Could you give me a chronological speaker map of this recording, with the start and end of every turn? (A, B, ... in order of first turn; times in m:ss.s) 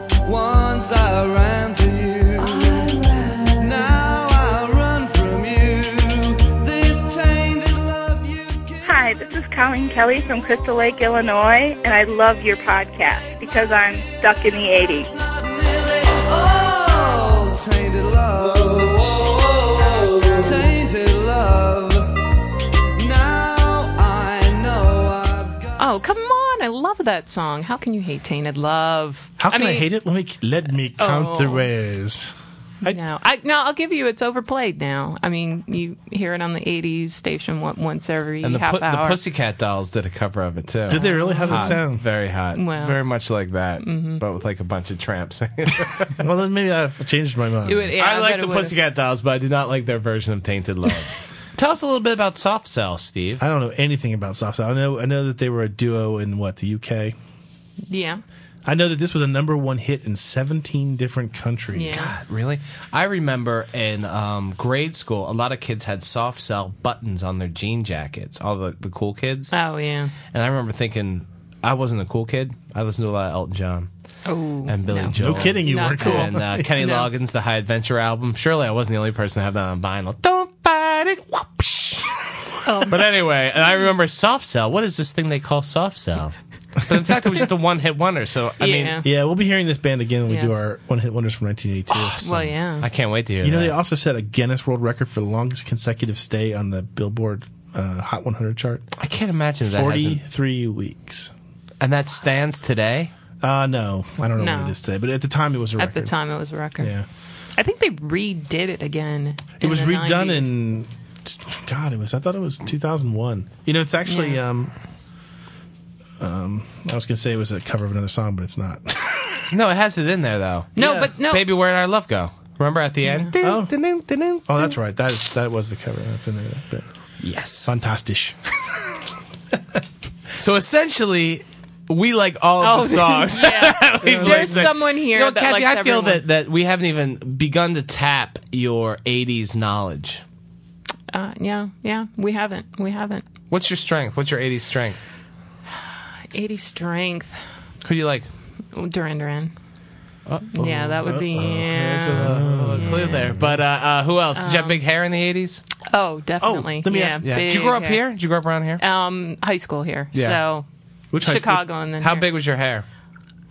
0:00.2-0:09.2 A
0:08.8-0:15.1 B
0:13.1-0:14.3 A
0:15.0-0:22.3 A
0:22.9-0:26.0 A
0:25.8-0:29.9 C
0:29.4-0:33.0 D
0:31.0-0:31.7 C
0:32.8-0:39.2 C
0:38.4-0:46.2 E
0:40.9-0:42.0 D
0:40.9-0:41.8 C
0:42.5-0:43.0 C
0:43.8-0:44.2 C
0:46.2-0:47.9 D
0:47.6-0:48.8 C
0:48.0-0:53.4 E
0:53.4-0:57.1 D
0:57.9-0:58.2 C
0:58.6-1:02.1 D
1:01.7-1:02.1 C
1:01.9-1:09.6 E
1:09.5-1:10.1 C
1:10.3-1:13.9 E
1:14.3-1:16.3 C
1:14.6-1:22.2 E
1:15.1-1:17.1 D
1:22.8-1:29.0 E
1:28.6-1:29.1 C
1:29.0-1:32.2 D
1:30.3-1:30.6 C
1:31.9-1:33.8 E
1:32.2-1:32.8 C
1:33.4-1:38.8 D
1:39.0-1:40.2 E
1:39.7-1:41.3 D
1:41.8-1:43.1 E
1:43.4-1:46.1 D
1:44.4-1:44.8 C
1:45.8-1:46.9 C
1:46.8-1:47.0 D
1:47.6-1:50.5 C
1:49.6-1:54.7 D
1:54.1-1:54.4 C
1:56.2-1:59.5 D
1:59.5-2:04.7 E
2:00.8-2:01.4 C
2:00.8-2:01.1 D
2:03.0-2:03.3 C
2:03.4-2:03.7 D
2:04.5-2:06.8 D
2:07.2-2:07.7 E
2:07.6-2:08.4 D
2:10.4-2:20.2 E
2:12.6-2:16.2 C
2:14.0-2:14.7 D
2:21.1-2:23.2 C
2:23.5-2:25.0 E
2:26.3-2:27.4 C
2:27.8-2:28.3 E
2:28.7-2:29.5 C
2:30.2-2:31.0 E
2:30.5-2:33.3 C
2:30.6-2:33.6 D
2:31.8-2:35.6 E
2:34.4-2:34.8 C
2:35.9-2:38.0 C
2:36.4-2:37.3 D
2:37.2-2:38.8 E
2:38.8-2:40.6 C
2:40.1-2:40.4 E
2:41.1-2:41.6 D
2:41.2-2:42.2 C
2:42.0-2:42.8 E